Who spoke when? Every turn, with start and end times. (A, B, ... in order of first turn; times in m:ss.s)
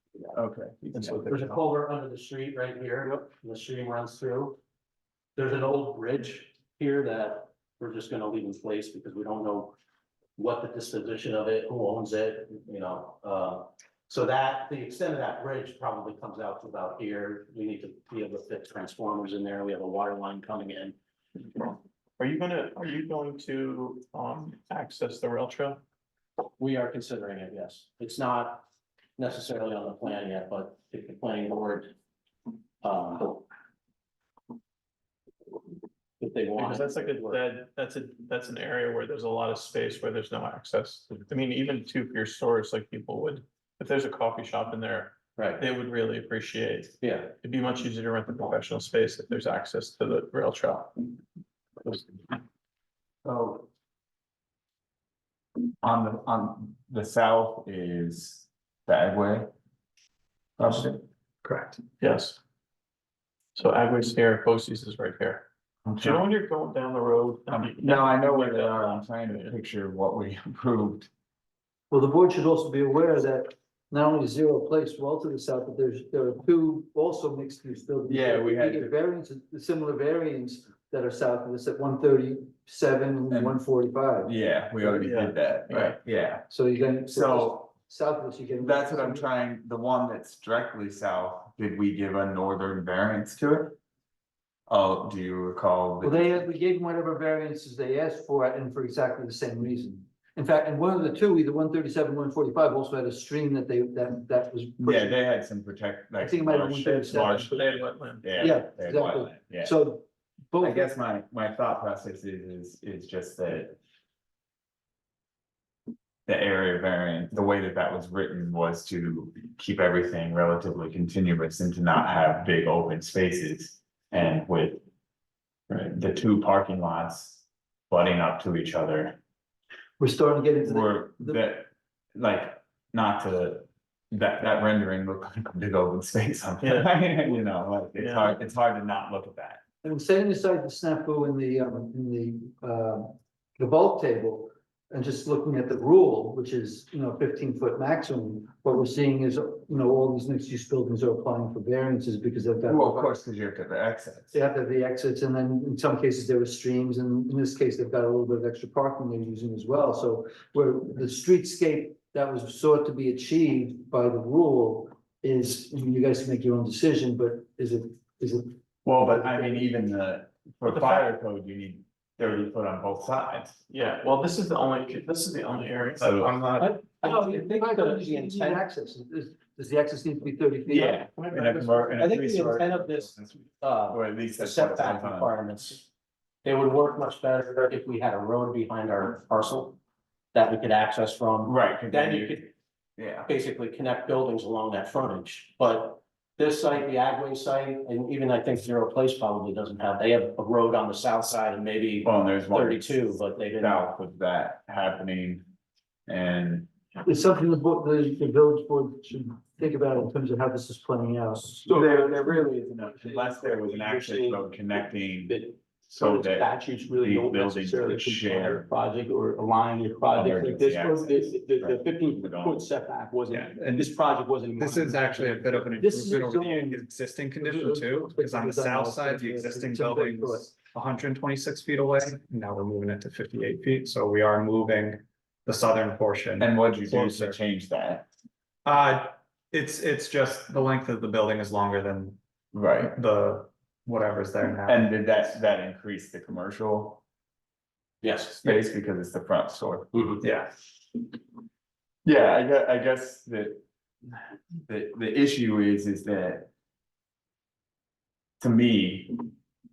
0:00.3-0:01.0 A
0:00.8-0:01.6 B
0:01.0-0:04.6 C
0:05.4-0:09.8 C
0:10.4-0:21.0 C
0:22.2-0:25.8 B
0:26.6-0:28.7 C
0:29.2-0:31.9 C
0:32.8-0:33.4 C
0:36.2-0:37.4 C
0:36.6-0:50.9 B
0:45.4-0:45.6 C
0:47.0-0:47.4 C
0:53.2-0:53.7 A
0:55.8-0:59.5 A
1:00.6-1:01.8 D
1:02.0-1:02.4 B
1:03.6-1:05.5 B
1:05.9-1:06.2 A
1:06.0-1:09.6 B
1:07.5-1:11.1 A
1:11.9-1:25.0 E
1:18.1-1:19.0 A
1:23.3-1:23.6 A
1:24.2-1:26.5 A
1:25.0-1:26.0 B
1:26.5-1:29.3 E
1:27.1-1:27.7 A
1:28.6-1:33.8 A
1:34.7-1:36.5 A
1:36.0-1:45.2 E
1:44.8-1:49.8 A
1:46.2-1:47.6 E
1:47.3-1:48.5 B
1:48.4-1:50.9 E
1:50.6-1:53.8 A
1:56.3-2:04.8 A
2:05.7-2:09.2 A
2:10.0-2:11.4 E
2:10.6-2:19.6 A
2:16.6-2:17.4 B
2:18.0-2:18.4 B
2:19.8-2:33.1 E
2:32.7-2:34.3 A
2:34.3-2:48.6 E
2:48.8-2:53.6 A
2:49.1-2:49.6 E
2:50.7-2:51.1 B
2:53.7-2:56.7 B
2:56.0-2:56.6 A
2:56.6-2:58.6 C
2:56.6-3:01.0 E
3:00.7-3:03.3 A
3:00.9-3:05.9 C
3:03.9-3:05.4 A
3:06.4-3:09.8 C
3:10.3-3:12.5 C
3:11.5-3:12.4 A
3:13.0-3:13.3 A
3:13.3-3:23.8 C
3:22.0-3:25.5 A
3:26.1-3:26.7 A
3:27.0-3:31.8 E
3:31.7-3:34.4 F
3:31.7-3:35.4 A
3:35.3-3:45.7 F
3:36.0-3:38.7 A
3:40.1-3:42.7 A
3:43.3-3:43.9 D
3:44.6-3:57.4 D
3:45.8-3:46.8 E
3:47.4-3:50.5 E
3:56.4-3:58.1 A
3:58.6-4:02.2 D
4:02.5-4:02.9 A
4:02.8-4:04.9 D
4:04.7-4:07.0 A
4:08.0-4:08.4 C
4:08.4-4:09.9 A
4:09.9-4:10.2 C
4:10.2-4:10.5 D
4:12.0-4:13.6 A
4:14.7-4:16.5 A
4:18.4-4:19.3 A